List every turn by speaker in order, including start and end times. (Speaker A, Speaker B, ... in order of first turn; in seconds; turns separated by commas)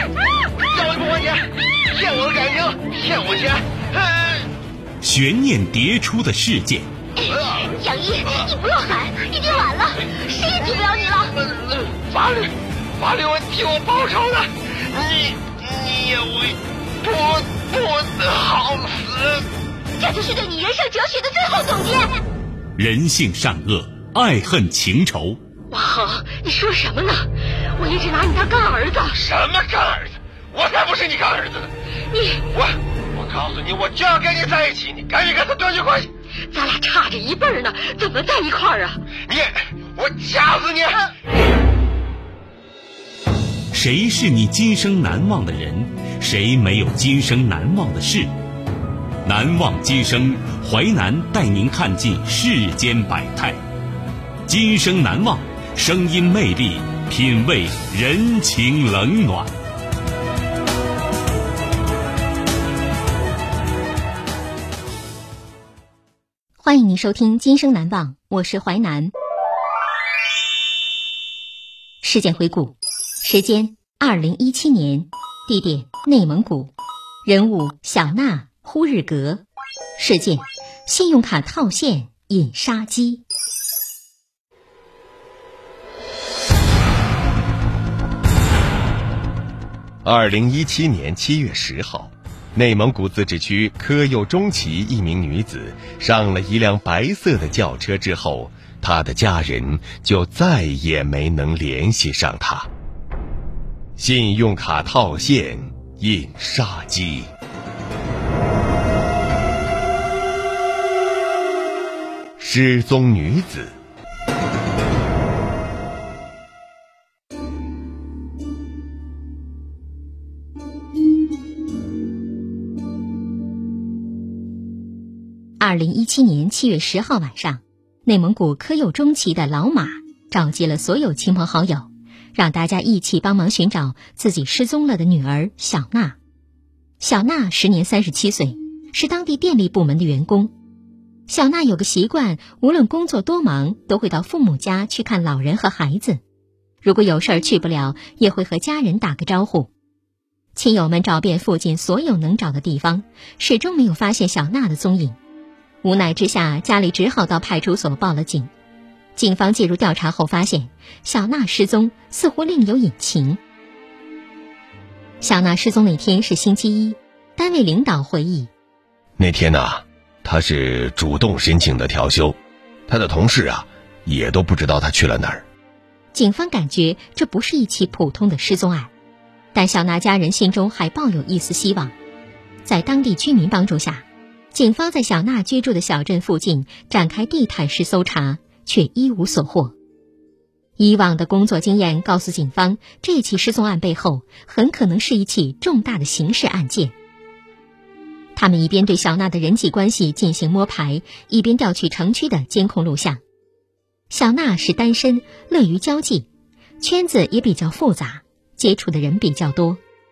Speaker A: 0.8-1.3, Speaker B: 1.0-1.3, Speaker A: 2.1-3.6, Speaker B: 2.2-3.0, Speaker C: 5.0-6.9, Speaker D: 7.2-11.5, Speaker A: 13.0-16.5, Speaker A: 17.1-19.1, Speaker D: 20.0-22.2, Speaker C: 22.8-25.4, Speaker D: 25.7-29.2, Speaker A: 29.2-31.7, Speaker B: 29.4-29.9, Speaker B: 30.6-31.3, Speaker D: 32.1-32.5, Speaker A: 33.2-36.1, Speaker D: 36.5-39.0, Speaker A: 40.0-40.9, Speaker C: 43.7-48.3, Speaker C: 49.2-53.6, Speaker C: 54.5-59.5, Speaker E: 66.6-69.1, Speaker E: 72.0-76.7, Speaker E: 77.2-79.4, Speaker E: 80.0-83.2, Speaker B: 90.0-102.7, Speaker B: 104.0-107.3, Speaker B: 112.4-113.7, Speaker E: 125.6-136.2, Speaker E: 137.0-140.5, Speaker E: 141.3-146.2, Speaker E: 146.8-149.7, Speaker E: 150.5-155.2, Speaker E: 155.8-158.5, Speaker E: 159.2-163.4, Speaker E: 165.2-168.5, Speaker B: 169.2-172.3, Speaker B: 172.9-175.4, Speaker E: 176.1-178.9, Speaker E: 179.5-181.9, Speaker E: 182.6-189.7, Speaker E: 190.8-196.9, Speaker E: 198.3-203.2, Speaker E: 204.1-206.3, Speaker E: 206.8-209.8